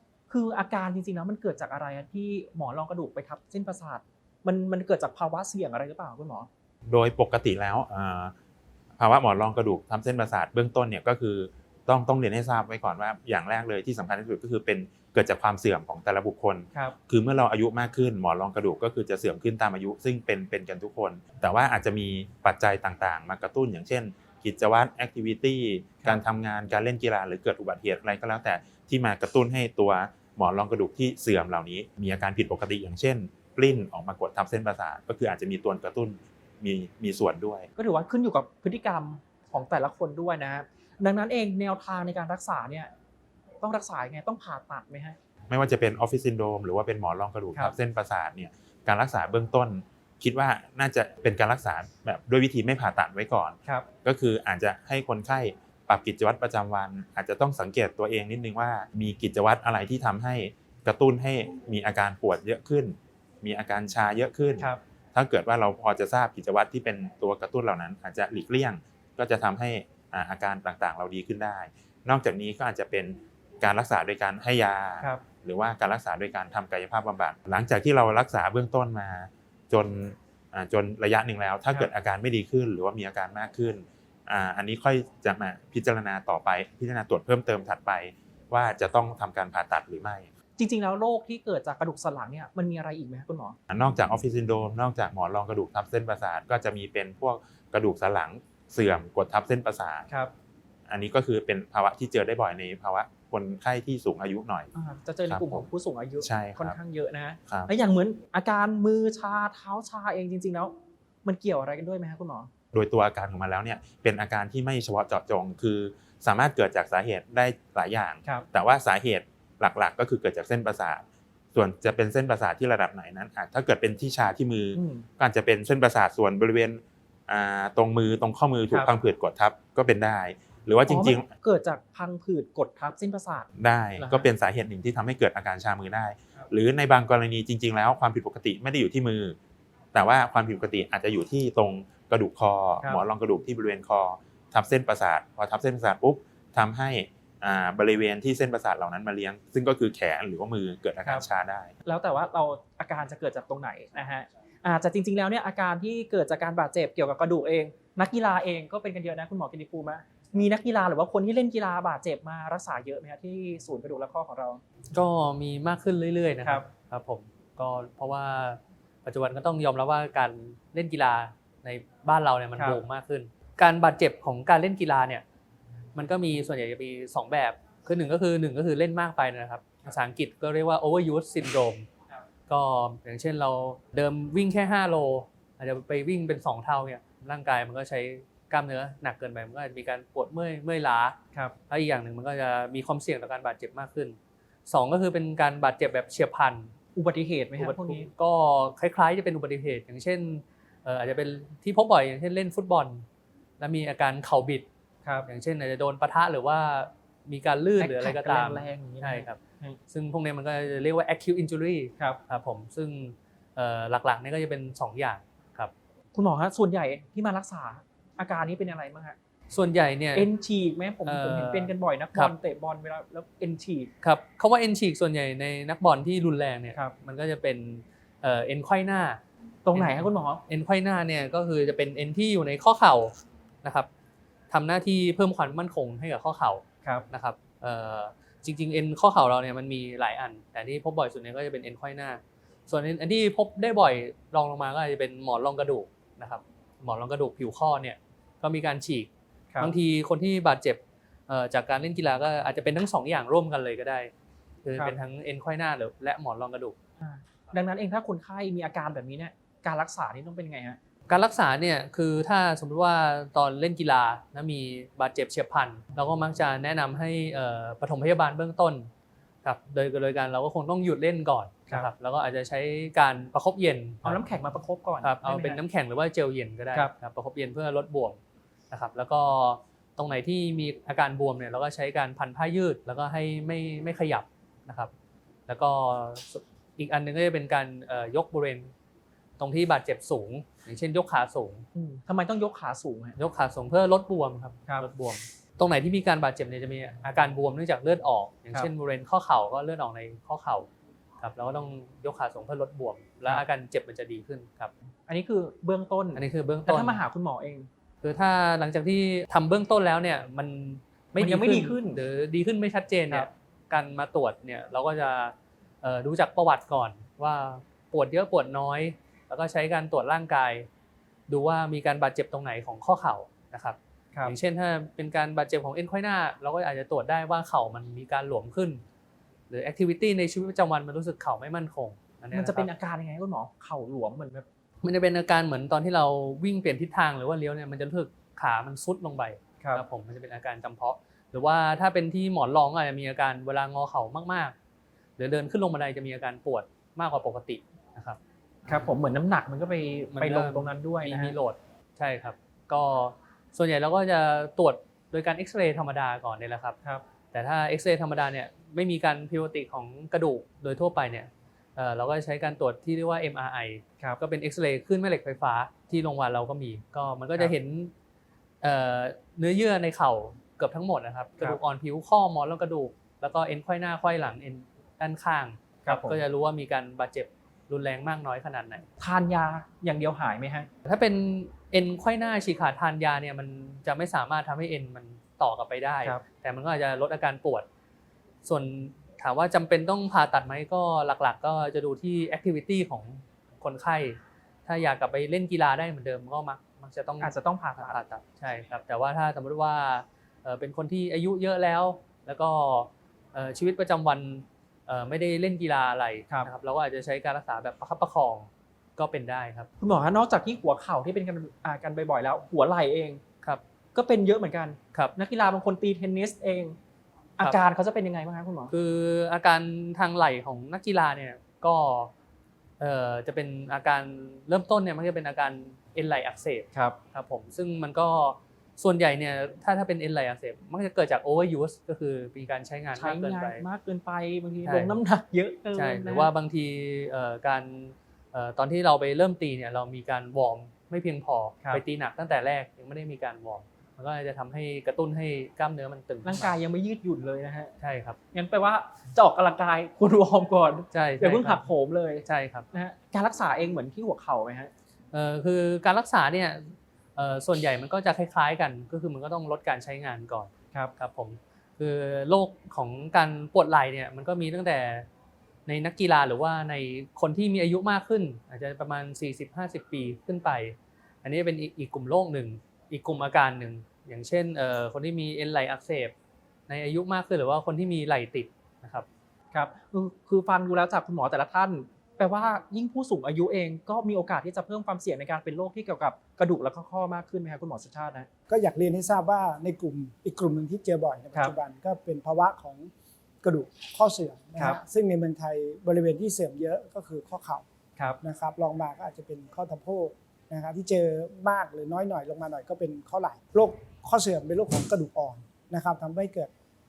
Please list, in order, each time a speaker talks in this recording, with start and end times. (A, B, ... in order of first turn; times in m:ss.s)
0:00.3-0:06.5 A
0:06.8-0:08.3 B
0:09.0-0:37.7 B
0:37.8-0:42.9 A
0:43.6-0:45.2 A
0:45.5-1:30.3 B
1:30.6-1:33.6 A
1:33.7-1:40.1 B
1:40.9-1:44.7 B
1:44.7-1:52.5 A
1:45.3-1:45.7 B
1:46.2-1:46.8 B
1:52.7-2:11.3 B
2:04.7-2:05.0 A
2:10.9-2:14.2 A
2:13.6-2:19.4 B
2:19.9-2:31.7 B
2:31.8-2:44.6 A
2:44.9-2:55.2 C
2:55.9-3:01.9 C
3:02.5-3:11.2 C
3:11.7-3:16.7 C
3:16.9-3:18.1 A
3:17.6-3:23.0 C
3:23.6-3:24.7 C
3:25.2-3:35.7 C
3:27.8-3:29.8 A
3:36.1-3:39.2 A
3:39.5-3:40.3 C
3:40.1-3:43.9 A
3:41.0-3:42.3 C
3:44.0-3:49.2 C
3:49.6-3:50.4 A
3:49.7-3:53.9 C
3:54.5-4:14.1 C
4:14.6-4:16.8 C
4:17.0-4:20.8 A
4:21.1-4:28.9 C
4:29.4-4:34.2 C
4:34.0-4:35.6 A
4:35.0-4:38.2 C
4:38.7-4:44.9 C
4:45.5-4:48.7 C
4:49.4-4:51.7 C
4:51.7-4:53.2 A
4:53.2-5:00.7 C
5:01.2-5:04.7 C
5:05.1-5:07.7 A
5:06.1-5:07.0 C
5:08.0-5:20.7 C
5:11.2-5:12.0 A
5:21.3-5:28.8 C
5:29.5-5:32.7 C
5:32.3-5:34.4 A
5:34.8-5:44.5 C
5:45.2-5:48.2 C
5:48.7-5:51.3 A
5:50.1-5:56.8 C
5:57.3-6:07.9 C
6:08.6-6:18.8 C
6:15.8-6:16.2 A
6:19.0-6:20.7 A
6:20.8-6:27.6 C
6:28.4-6:49.7 C
6:37.2-6:38.0 A
6:49.8-6:53.2 A
6:53.9-6:56.8 A
6:57.4-6:58.7 A
6:58.7-7:02.1 C
7:02.8-7:13.6 C
7:13.0-7:16.3 A
7:14.6-7:15.0 C
7:15.7-7:26.5 C
7:26.2-7:27.7 A
7:27.8-7:28.2 C
7:28.3-7:34.7 A
7:30.9-7:31.6 C
7:32.2-7:32.7 C
7:35.1-7:45.1 C
7:45.6-7:56.1 C
7:56.7-7:59.0 C
7:59.5-8:08.3 A
8:08.5-8:12.9 D
8:13.4-8:17.6 D
8:18.2-8:26.5 D